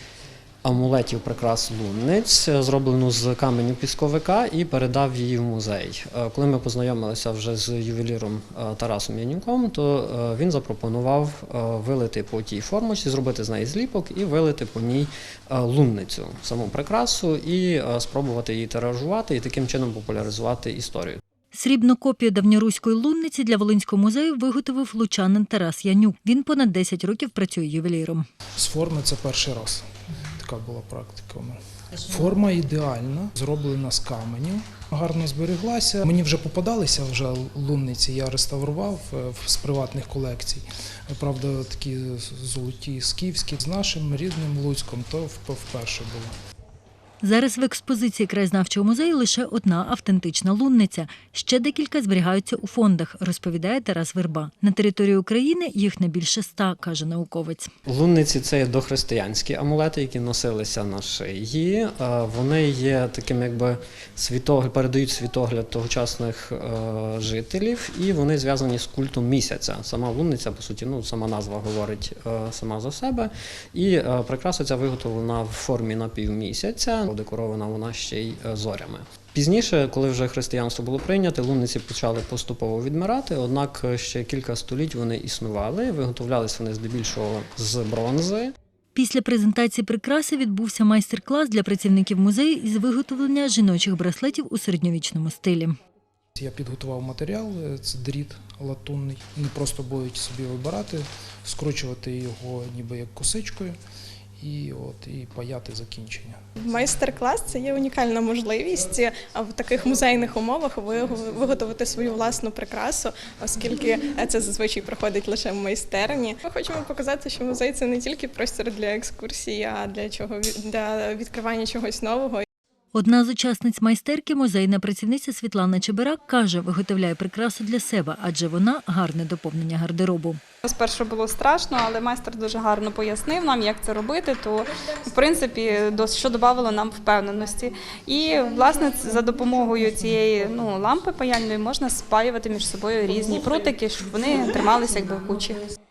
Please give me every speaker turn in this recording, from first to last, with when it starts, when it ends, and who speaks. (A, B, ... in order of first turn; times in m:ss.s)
0:00.6-0:21.2 A
0:21.5-0:28.2 B
0:28.6-0:29.8 C
0:30.4-0:46.3 C
0:47.2-0:57.7 B
0:57.8-1:28.5 A
1:28.9-1:35.7 B
1:36.4-1:43.8 C
1:44.4-1:46.4 C
1:46.6-2:02.4 D
2:02.9-2:10.4 B
2:10.6-2:25.6 E